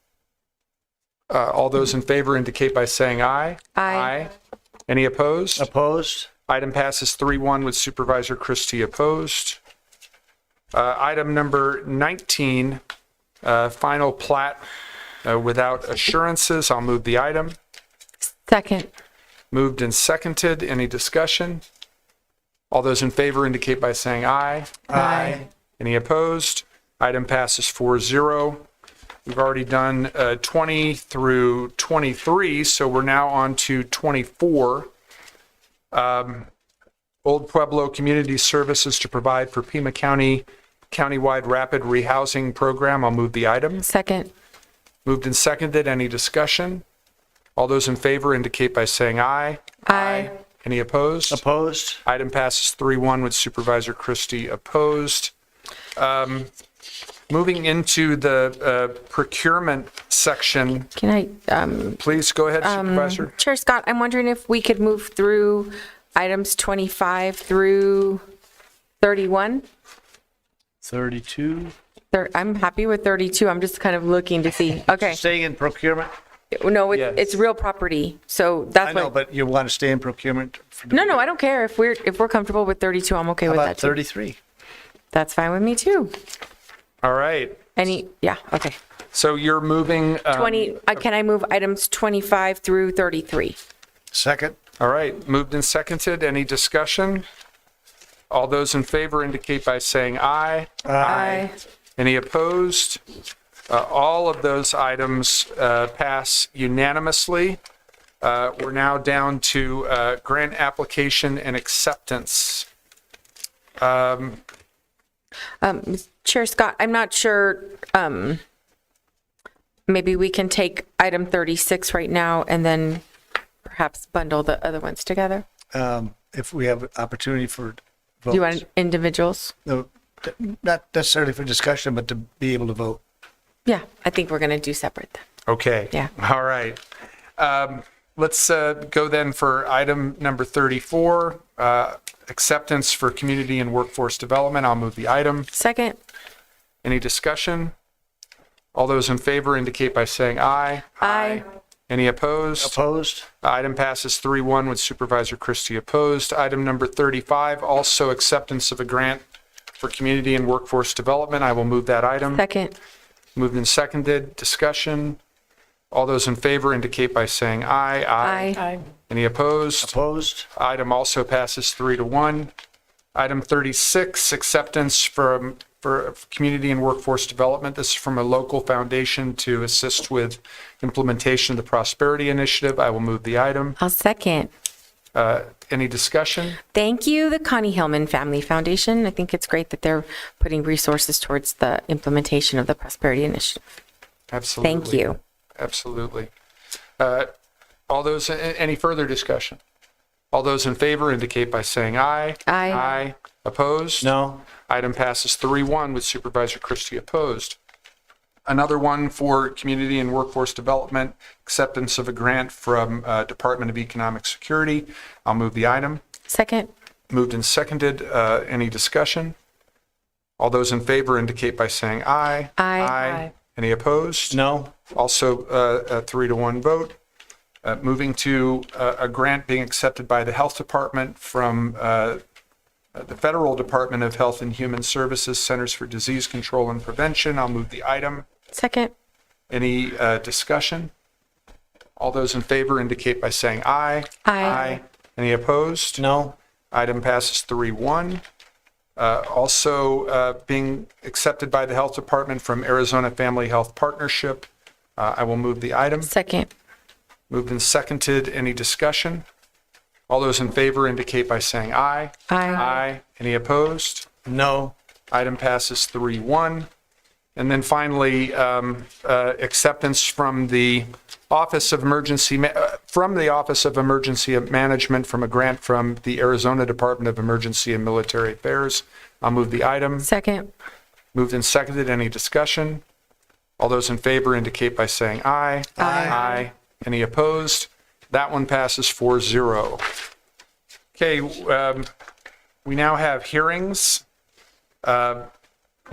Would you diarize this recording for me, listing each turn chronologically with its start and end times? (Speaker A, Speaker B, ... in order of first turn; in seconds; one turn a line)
Speaker A: 1.3-4.3
Speaker B: 3.8-4.1
Speaker A: 4.9-5.7
Speaker C: 5.6-6.3
Speaker A: 6.5-9.6
Speaker A: 10.7-12.8
Speaker A: 13.4-14.6
Speaker A: 15.2-17.6
Speaker B: 18.5-18.9
Speaker A: 19.5-21.6
Speaker A: 22.7-28.6
Speaker C: 24.9-25.4
Speaker B: 24.9-25.4
Speaker A: 29.2-34.9
Speaker A: 35.9-36.5
Speaker A: 37.2-43.9
Speaker B: 43.8-44.3
Speaker A: 45.0-46.8
Speaker A: 47.5-51.4
Speaker B: 49.9-50.3
Speaker C: 51.3-52.0
Speaker A: 52.0-55.3
Speaker A: 56.0-56.5
Speaker A: 57.3-60.9
Speaker B: 61.0-62.0
Speaker A: 62.0-63.3
Speaker B: 62.6-68.2
Speaker B: 69.0-69.7
Speaker C: 70.8-71.7
Speaker B: 72.1-75.2
Speaker C: 74.9-76.1
Speaker B: 76.5-79.1
Speaker A: 76.9-77.4
Speaker C: 78.8-81.2
Speaker B: 80.9-84.0
Speaker C: 83.5-84.4
Speaker B: 85.1-86.1
Speaker A: 87.0-87.8
Speaker B: 87.8-88.8
Speaker A: 89.1-91.0
Speaker B: 90.3-93.6
Speaker C: 94.1-94.6
Speaker A: 94.8-97.3
Speaker A: 98.3-103.0
Speaker C: 100.8-101.5
Speaker B: 101.0-101.5
Speaker A: 103.7-107.6
Speaker A: 108.2-112.7
Speaker A: 113.8-114.4
Speaker B: 115.6-118.4
Speaker B: 119.9-123.0
Speaker B: 123.6-125.4
Speaker C: 125.7-128.6
Speaker B: 128.3-129.5
Speaker C: 129.7-133.0
Speaker B: 133.7-135.2
Speaker A: 135.5-136.8
Speaker A: 137.4-145.5
Speaker B: 145.5-146.0
Speaker A: 146.8-147.7
Speaker A: 148.7-152.7
Speaker B: 151.0-151.4
Speaker C: 152.6-153.3
Speaker A: 153.4-159.2
Speaker A: 159.8-162.4
Speaker B: 162.3-162.7
Speaker A: 163.3-165.2
Speaker A: 165.9-169.9
Speaker B: 168.2-168.8
Speaker C: 169.8-170.5
Speaker A: 170.5-172.5
Speaker A: 173.1-183.8
Speaker B: 183.8-184.5
Speaker A: 185.1-186.6
Speaker B: 186.7-193.6
Speaker A: 194.3-195.1
Speaker B: 194.6-195.2
Speaker A: 195.6-196.3
Speaker A: 197.0-197.3
Speaker A: 197.9-199.6
Speaker A: 200.3-204.1
Speaker B: 202.5-202.9
Speaker C: 204.0-204.4
Speaker A: 204.7-207.6
Speaker A: 208.4-216.0
Speaker B: 216.3-216.7
Speaker A: 217.1-219.3
Speaker A: 220.4-224.4
Speaker B: 222.6-223.3
Speaker C: 224.3-224.7
Speaker A: 224.9-227.0
Speaker A: 227.6-232.2
Speaker A: 232.9-238.3
Speaker B: 238.5-238.9
Speaker A: 239.5-240.9
Speaker A: 242.0-246.1
Speaker B: 244.2-244.8
Speaker C: 246.0-246.3
Speaker A: 246.7-248.2
Speaker A: 249.0-256.1
Speaker B: 256.0-256.5
Speaker A: 257.3-259.2
Speaker A: 260.1-264.1
Speaker B: 262.3-262.8
Speaker C: 264.2-264.7
Speaker A: 265.1-266.7
Speaker A: 267.4-280.1
Speaker B: 280.0-280.5
Speaker A: 281.1-282.8
Speaker A: 283.6-289.8
Speaker C: 285.8-286.2
Speaker B: 285.8-286.5
Speaker A: 290.9-291.9
Speaker A: 292.6-294.0
Speaker A: 294.8-295.3